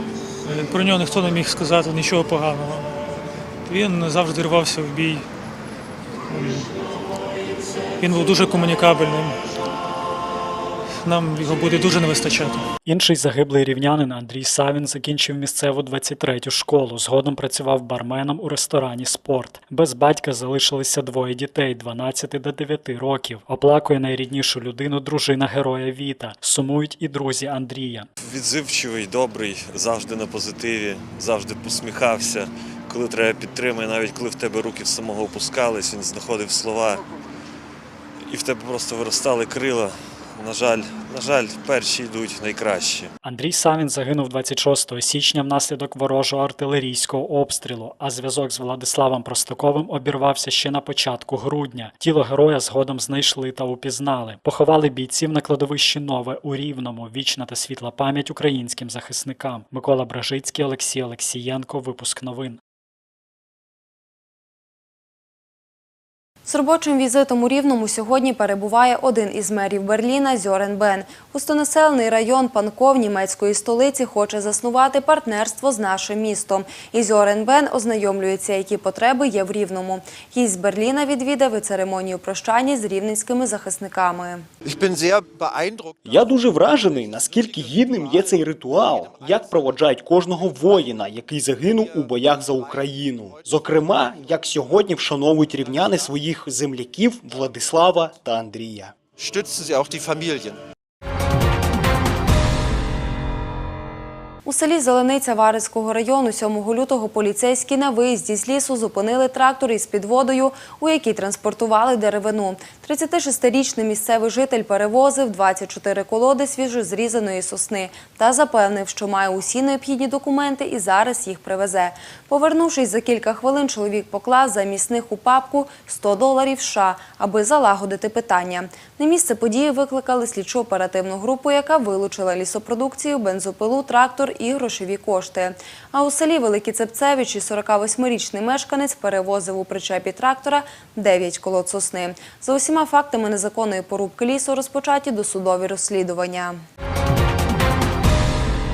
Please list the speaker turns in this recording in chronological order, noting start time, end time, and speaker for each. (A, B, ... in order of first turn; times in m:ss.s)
0:00.4-0:03.0 A
0:03.6-0:05.3 A
0:06.3-0:06.7 A
0:08.0-0:09.4 A
0:11.0-0:12.6 A
0:12.8-0:28.1 B
0:28.2-0:37.0 C
0:38.3-0:43.1 C
0:43.2-1:02.6 B
1:06.4-1:24.4 D
1:24.6-1:26.0 E
1:26.0-1:38.9 F
1:39.2-1:40.6 E
1:44.4-2:26.6 D